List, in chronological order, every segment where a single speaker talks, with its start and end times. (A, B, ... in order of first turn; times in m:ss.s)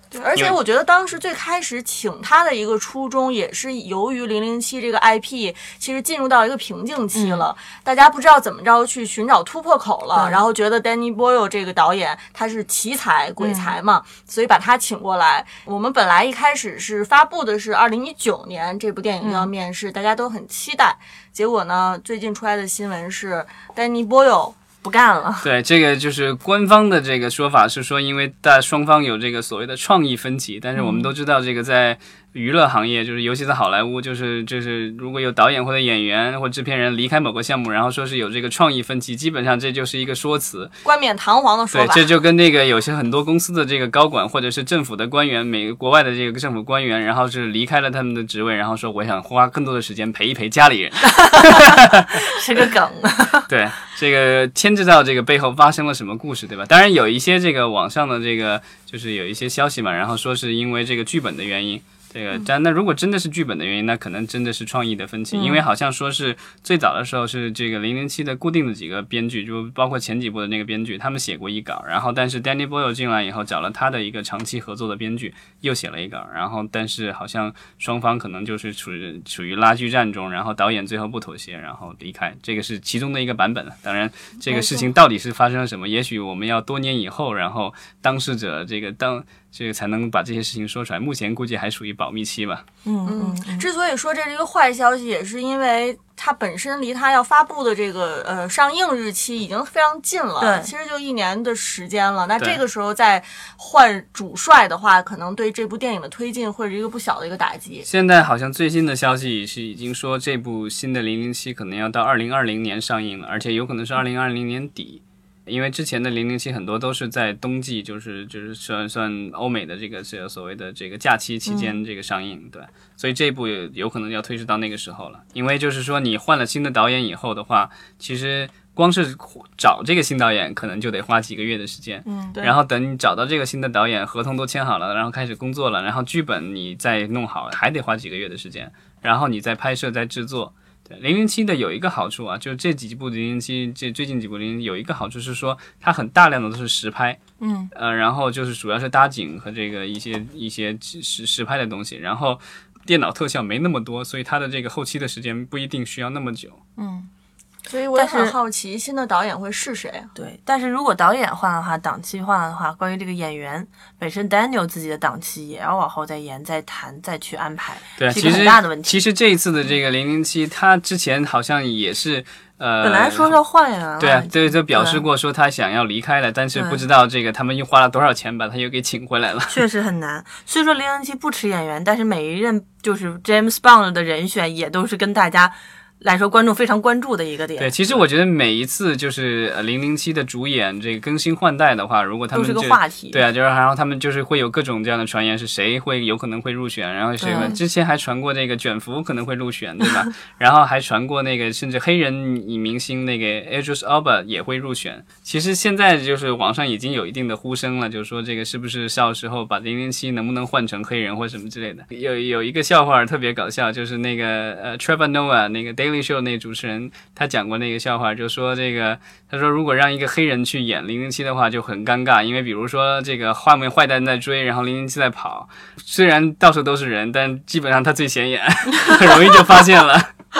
0:00.1-0:24.6 A
0:07.1-0:07.5 B
0:10.1-0:10.4 B
0:13.4-0:13.8 B
0:19.2-0:19.5 B
0:24.8-0:25.5 B
0:25.4-0:40.8 C
0:30.7-0:31.1 B
0:40.8-0:42.0 A
0:41.7-0:52.1 C
0:51.2-0:53.5 B
0:53.5-1:32.6 C
1:05.3-1:05.6 B
1:24.5-1:24.9 A
1:32.8-1:33.7 B
1:33.0-1:47.8 A
1:40.4-1:40.7 B
1:47.8-2:27.2 C
2:01.4-2:01.8 B
2:12.0-2:12.4 B
2:27.4-2:27.7 B
2:27.7-2:36.6 C
2:36.8-2:37.1 B
2:37.7-2:40.1 A
2:37.9-2:38.4 B
2:40.1-2:49.0 B
2:48.0-2:53.3 C
2:52.8-2:55.0 B
2:54.0-2:59.6 C
2:56.5-2:56.8 B
2:59.5-3:08.0 B
3:07.6-3:50.1 C
3:12.3-3:13.2 B
3:17.2-3:17.6 B